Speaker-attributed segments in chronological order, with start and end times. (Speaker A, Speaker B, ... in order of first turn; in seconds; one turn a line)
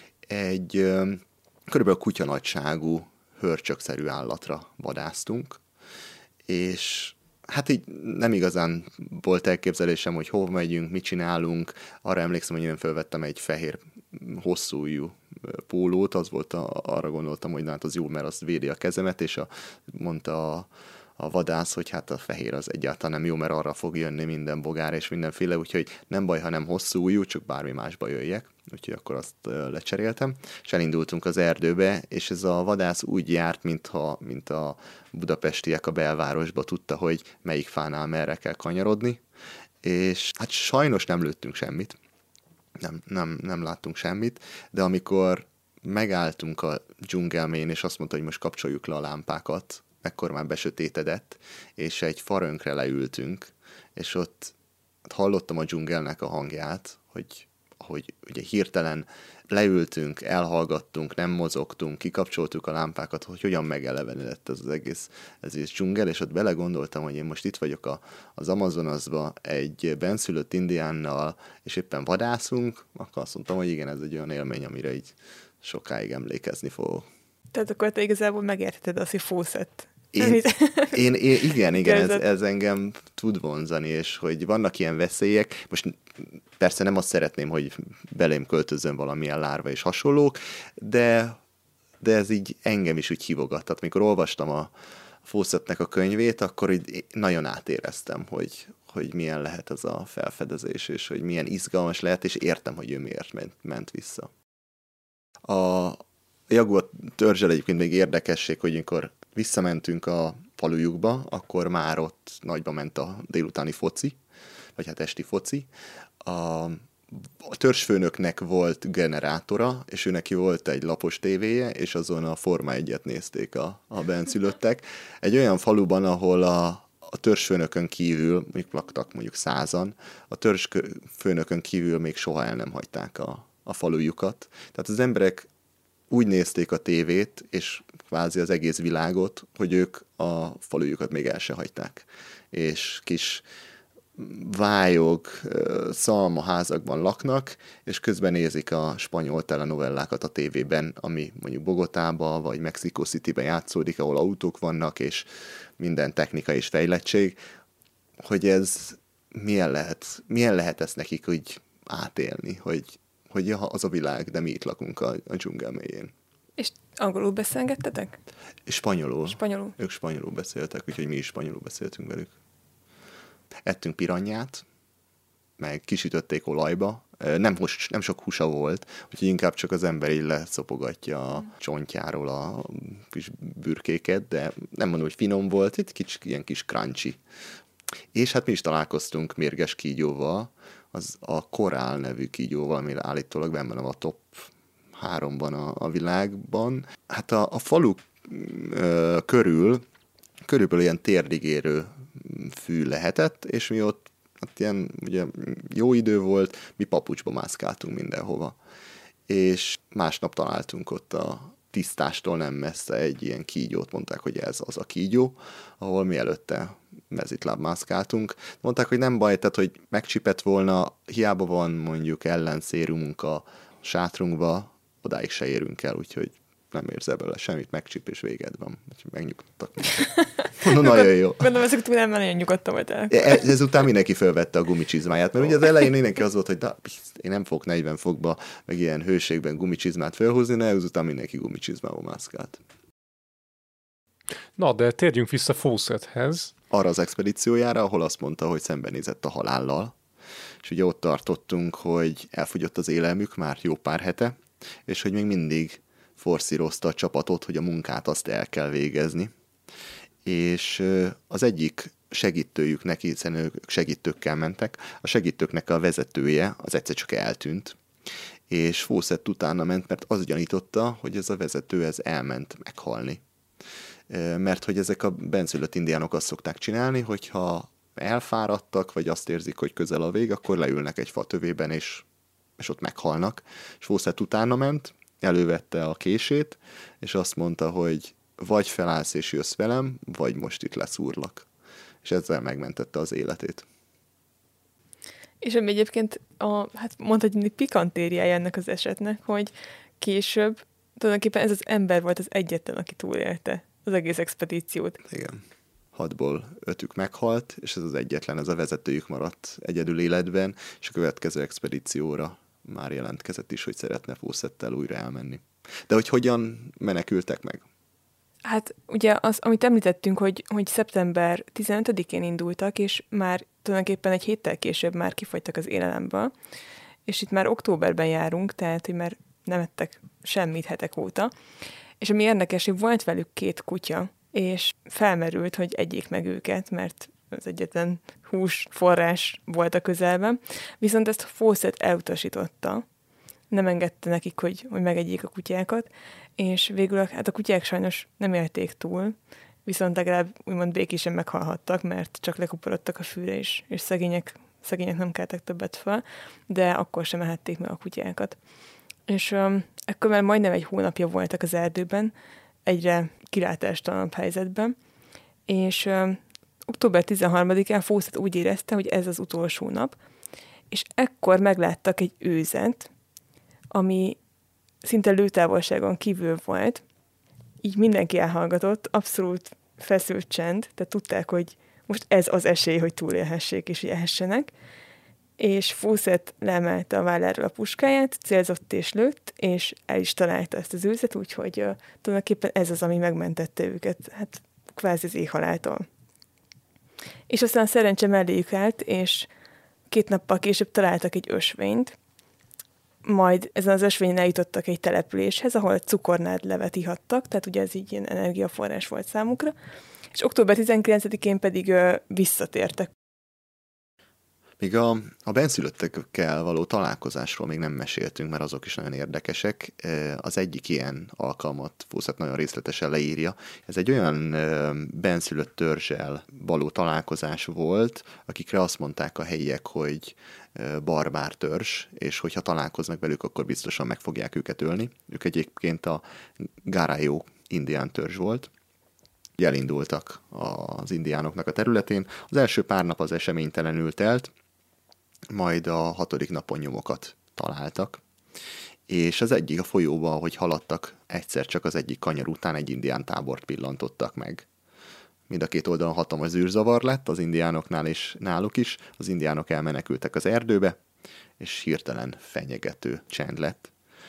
Speaker A: 0.3-5.6
Speaker A: 6.5-39.2
Speaker A: 39.8-42.0
Speaker A: 42.8-54.5
Speaker A: 55.1-77.1
Speaker B: 77.5-81.0
Speaker A: 80.1-91.4
Speaker B: 81.5-82.2
Speaker A: 92.0-94.7
Speaker A: 95.2-104.3
Speaker A: 105.5-114.2
Speaker A: 114.8-115.7
Speaker A: 116.2-135.5
Speaker A: 136.1-143.4
Speaker A: 144.2-155.3
Speaker A: 155.8-157.4
Speaker A: 158.2-166.1
Speaker B: 166.6-168.2
Speaker A: 168.7-172.3
Speaker B: 169.3-169.8
Speaker A: 173.6-174.6
Speaker A: 175.6-187.2
Speaker A: 188.1-199.8
Speaker A: 200.4-208.6
Speaker A: 209.3-230.1
Speaker B: 230.0-233.5
Speaker A: 230.6-231.5
Speaker A: 233.1-242.6
Speaker C: 244.6-246.5
Speaker A: 246.7-249.9
Speaker A: 250.6-259.3
Speaker A: 260.2-267.8
Speaker A: 268.5-273.2
Speaker A: 274.1-282.1
Speaker A: 282.6-291.5
Speaker A: 292.0-293.7
Speaker B: 295.4-305.0
Speaker A: 305.1-305.4
Speaker A: 305.9-317.6
Speaker B: 318.4-326.3
Speaker B: 327.1-331.3
Speaker B: 332.0-342.8
Speaker B: 343.5-358.4
Speaker B: 359.1-362.1
Speaker B: 362.7-364.8
Speaker B: 365.5-369.9
Speaker B: 370.7-372.9
Speaker B: 373.7-374.2
Speaker B: 374.8-376.8
Speaker B: 377.6-384.5
Speaker B: 385.4-395.8
Speaker B: 397.3-399.3
Speaker B: 399.9-402.0
Speaker B: 403.1-409.5
Speaker B: 410.1-412.9
Speaker A: 414.6-438.5
Speaker A: 439.4-444.3
Speaker A: 445.3-448.0
Speaker A: 448.9-454.5
Speaker A: 455.3-460.8
Speaker A: 461.4-463.7